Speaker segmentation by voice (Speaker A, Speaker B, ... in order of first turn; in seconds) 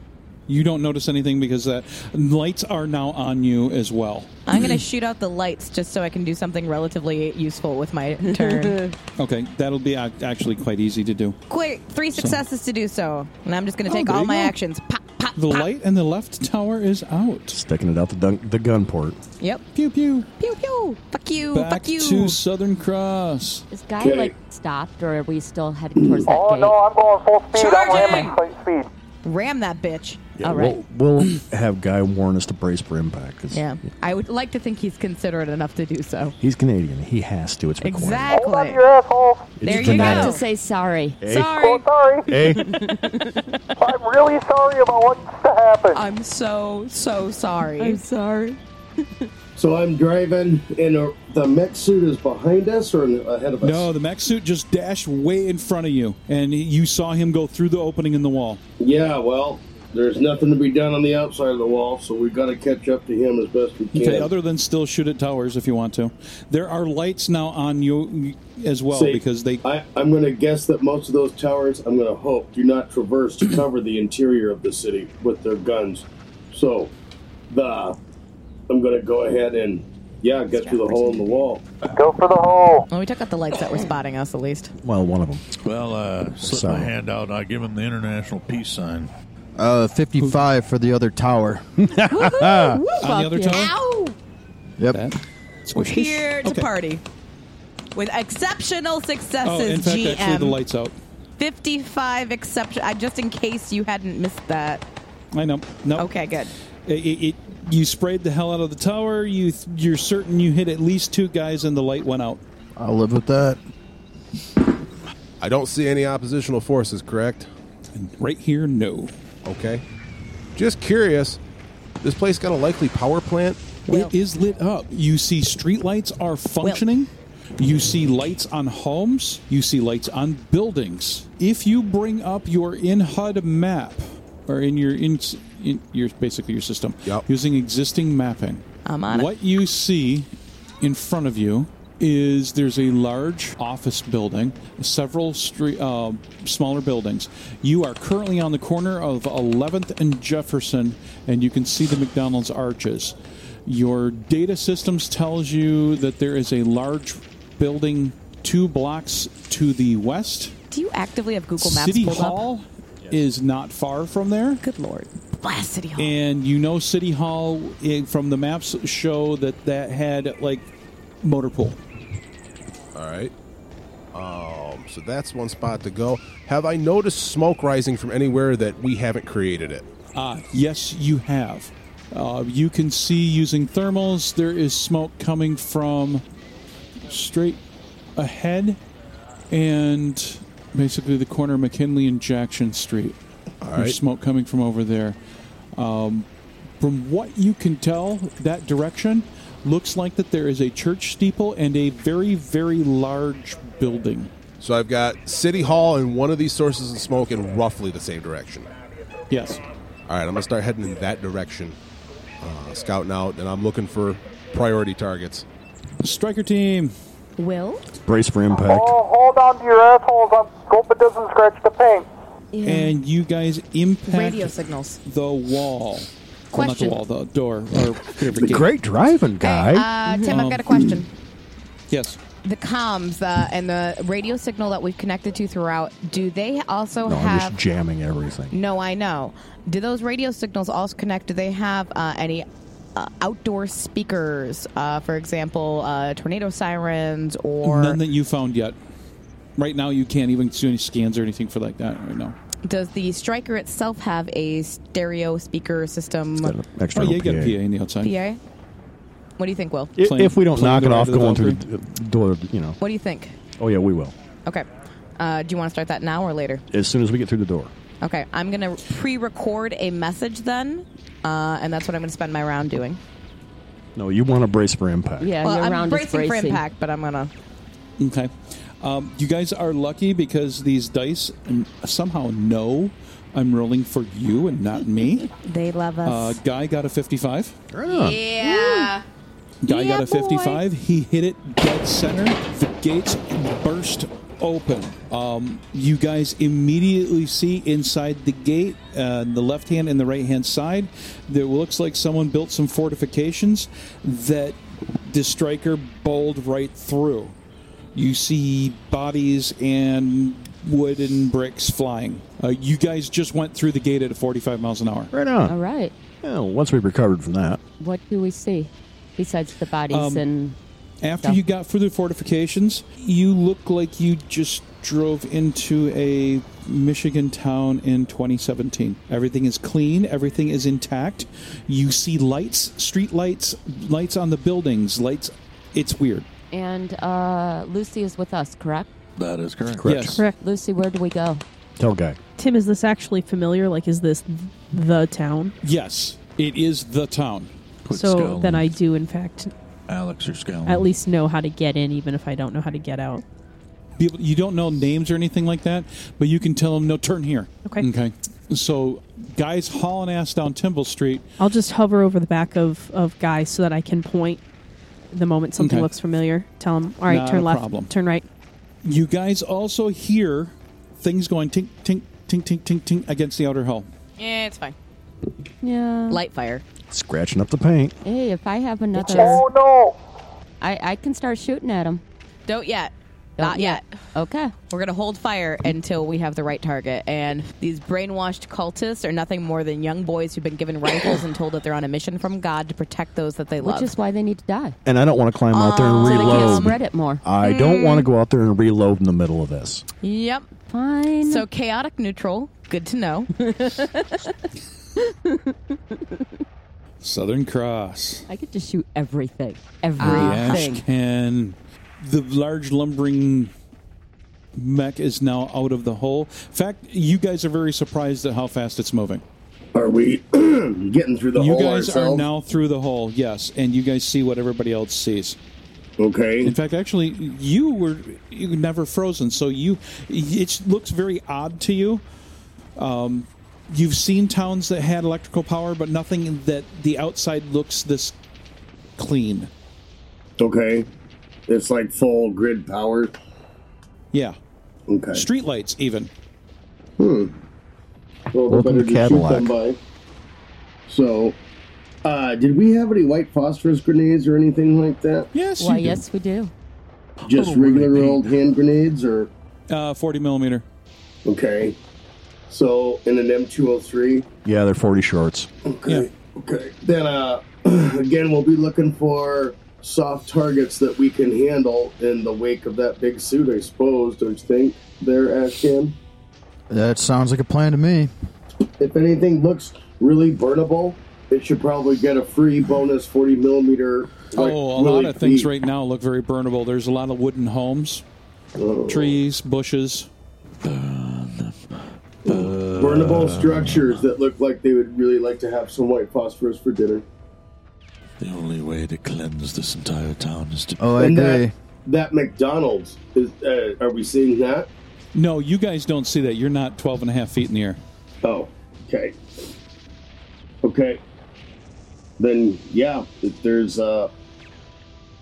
Speaker A: 0.5-4.4, 9.2-11.4, 12.2-12.4, 13.9-14.5, 15.4-17.6, 19.8-20.3, 21.5-23.6, 53.6-58.6, 63.9-69.6, 93.0-93.7, 94.9-96.7, 99.4-101.0, 105.3-106.1, 106.9-112.4, 117.9-119.1, 123.9-140.3, 140.8-160.6, 161.6-164.6, 166.0-170.7, 171.2-171.8, 180.2-186.2, 187.1-187.6, 188.2-188.8, 189.5-193.2, 193.8-195.2, 195.8-196.3, 196.8-204.3, 209.3-209.6, 216.0-216.9, 222.7-224.5, 225.0-228.7, 230.3-230.9, 231.9-232.2, 247.6-248.8, 249.6-252.4, 256.9-258.1, 260.0-261.6, 278.0-285.3, 286.1-287.6, 289.6-307.4, 307.9-315.1, 319.9-320.3, 321.0-336.3, 339.9-340.2, 345.6-347.5, 354.0-361.2, 365.6-365.9, 367.1-367.9, 368.8-373.9, 407.0-408.3, 410.0-413.5, 414.6-419.2, 421.4-425.4, 426.4-432.0, 432.8-438.2, 439.0-439.5, 444.1-444.4, 445.1-446.1, 455.3-456.0, 457.3-458.3, 459.7-460.7, 484.3-488.0, 488.9-490.1, 505.1-507.8
Speaker B: 4.5-8.9, 11.5-15.7, 20.4-22.4, 27.5-28.4, 29.2-30.3, 33.5-36.4, 37.8-38.8, 39.6-40.4, 45.9-48.0, 80.5-81.3, 82.9-84.7, 92.2-94.1, 95.8-97.0, 98.0-100.6, 101.4-104.8, 106.0-106.5, 138.8-139.3, 160.7-162.4, 164.6-166.1, 217.4-217.8, 222.6-222.9, 224.1-225.0, 226.5-227.0, 229.4-231.1, 232.4-237.6, 238.5-248.0, 252.7-256.5, 258.0-258.4, 259.4-259.9, 262.8-263.4, 265.2-266.6, 268.0-273.0, 275.4-277.3, 285.4-286.4, 287.9-289.0, 289.7-290.6, 374.2-374.8, 376.1-376.6, 379.0-379.4, 382.5-383.9, 384.7-393.9, 395.5-396.8, 397.4-398.1, 400.0-400.5, 401.2-403.3, 410.0-410.8
Speaker C: 8.2-8.9, 23.7-26.8, 30.4-30.8, 39.6-41.8, 42.4-43.5, 47.8-48.6, 92.2-93.9, 275.2-276.6, 288.4-289.0, 315.5-315.9, 317.8-320.6, 336.5-338.9, 340.4-341.4, 375.6-376.2, 378.0-379.4, 380.6-382.0, 383.4-384.5, 393.6-394.8, 395.8-397.2, 400.6-401.5, 403.4-404.1, 405.0-405.4, 408.3-410.8, 455.6-456.5
Speaker D: 17.5-19.2, 30.4-33.8, 36.4-38.4, 39.6-40.4, 41.2-41.7, 42.3-42.8, 84.8-85.5, 86.4-86.9, 91.8-92.8, 218.1-218.9, 228.3-229.9, 237.1-238.6, 256.4-257.6, 260.0-262.8, 263.6-264.1, 266.7-267.7, 273.9-275.3, 287.7-288.2, 315.1-315.6, 316.2-317.6, 339.7-340.2, 341.8-342.2, 376.9-378.0, 394.9-399.9, 448.5-449.5, 464.4-465.5
Speaker E: 24.0-24.4, 26.0-26.3, 49.6-53.9, 58.8-64.3, 68.9-76.9, 77.5-78.0, 78.7-81.6, 419.7-422.3, 426.0-426.5, 440.4-440.9, 441.5-443.2, 444.9-445.2, 447.0-447.3, 448.3-449.8, 450.9-451.4, 452.0-455.3, 457.3-459.3, 461.2-461.8, 462.5-464.3, 465.7-476.0, 478.8-485.5, 488.6-489.2, 492.2-497.1, 501.0-504.7, 508.2-509.2, 510.6-511.0, 512.2-514.1
Speaker F: 26.3-28.9, 38.3-39.6, 41.5-42.3, 43.8-46.0, 81.9-82.9, 218.6-222.1, 379.1-379.9
Speaker G: 85.6-89.1, 339.2-340.1, 347.9-348.8, 349.9-350.9, 490.6-494.1, 498.2-500.9
Speaker H: 89.6-91.8, 94.8-95.0, 112.8-113.6, 476.7-478.1, 500.8-501.5
Speaker I: 115.4-117.5, 119.5-119.8, 120.5-121.4, 122.0-123.6, 172.9-173.3, 174.1-179.9, 193.6-194.0, 204.6-208.7, 210.1-211.8, 212.4-215.5
Speaker J: 342.4-345.5, 347.9-349.5, 350.7-353.2, 361.4-364.4, 365.1-368.2